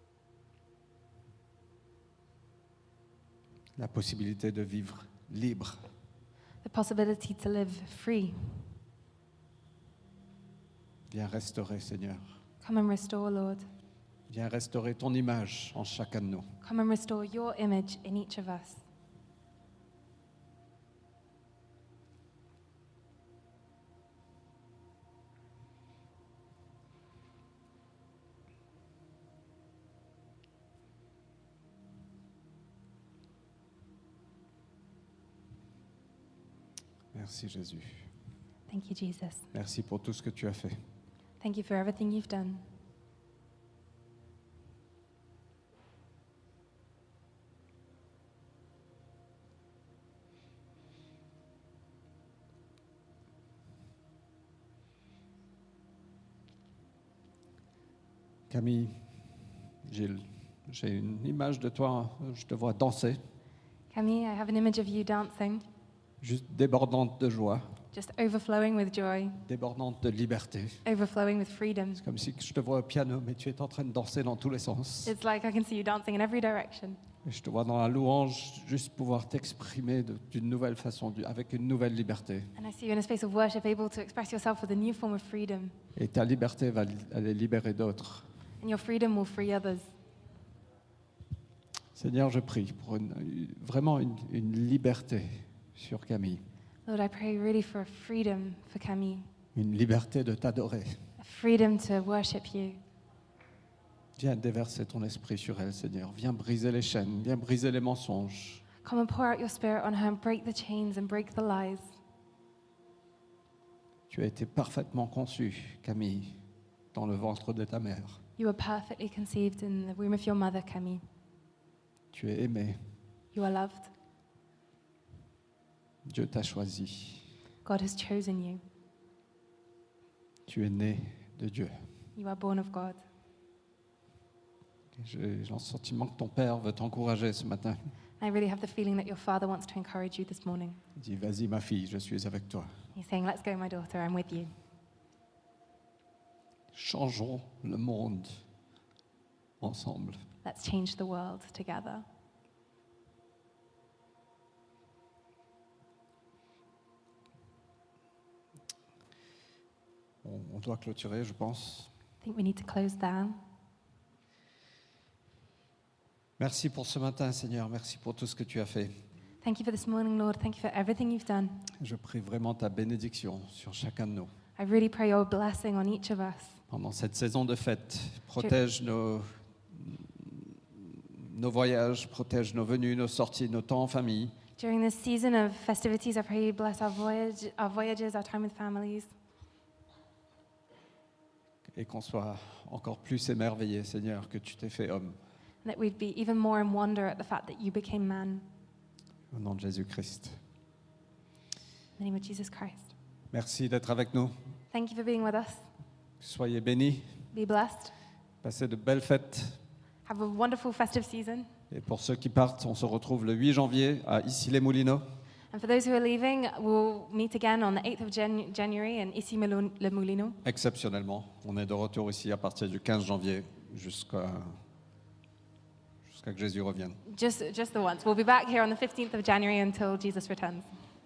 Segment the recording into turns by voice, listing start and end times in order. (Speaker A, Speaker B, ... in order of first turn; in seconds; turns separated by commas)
Speaker A: 3.8-5.9, Speaker B: 6.6-8.8, Speaker A: 11.1-12.4, Speaker B: 12.6-13.7, Speaker A: 14.3-16.5, Speaker B: 16.6-18.8, Speaker A: 37.1-38.1, Speaker B: 38.7-39.5, Speaker A: 39.5-40.8, Speaker B: 41.4-42.7, Speaker A: 58.5-58.9, Speaker A: 59.9-63.2, Speaker B: 63.9-65.6, Speaker A: 66.2-67.7, Speaker B: 67.9-69.4, Speaker A: 69.5-70.8, Speaker B: 70.8-72.0, Speaker A: 72.0-75.2, Speaker B: 75.1-77.0, Speaker A: 77.2-82.5, Speaker B: 82.6-85.8, Speaker A: 86.0-88.3, Speaker B: 88.6-89.9, Speaker A: 92.0-96.4, Speaker B: 96.9-99.3, Speaker A: 99.5-101.0, Speaker B: 101.2-102.8, Speaker A: 104.2-108.6, Speaker B: 108.8-111.9, Speaker A: 114.1-116.4, Speaker A: 116.9-118.2, Speaker B: 118.4-121.0, Speaker A: 122.1-122.8, Speaker B: 123.3-123.9, Speaker A: 126.1-127.3, Speaker B: 127.7-128.6, Speaker A: 130.5-131.7, Speaker B: 132.2-133.0, Speaker A: 135.0-137.8, Speaker B: 138.2-140.8, Speaker A: 141.0-142.7, Speaker B: 142.9-144.5, Speaker A: 146.7-148.4, Speaker A: 149.6-150.2, Speaker B: 150.4-152.1, Speaker A: 160.2-161.9, Speaker B: 162.2-163.4, Speaker A: 166.4-168.9, Speaker B: 169.4-171.7, Speaker A: 171.8-174.3, Speaker B: 174.6-176.6, Speaker A: 176.7-184.4, Speaker B: 184.6-189.1, Speaker A: 191.7-195.2, Speaker B: 195.6-198.5, Speaker A: 199.3-200.4, Speaker B: 202.0-202.9, Speaker A: 203.3-204.3, Speaker B: 204.7-205.7, Speaker A: 206.2-207.2, Speaker B: 207.3-207.9, Speaker A: 208.4-209.6, Speaker B: 210.1-211.5, Speaker A: 211.7-215.0, Speaker B: 215.5-220.4, Speaker A: 220.4-224.6, Speaker A: 226.1-227.0, Speaker B: 227.1-230.7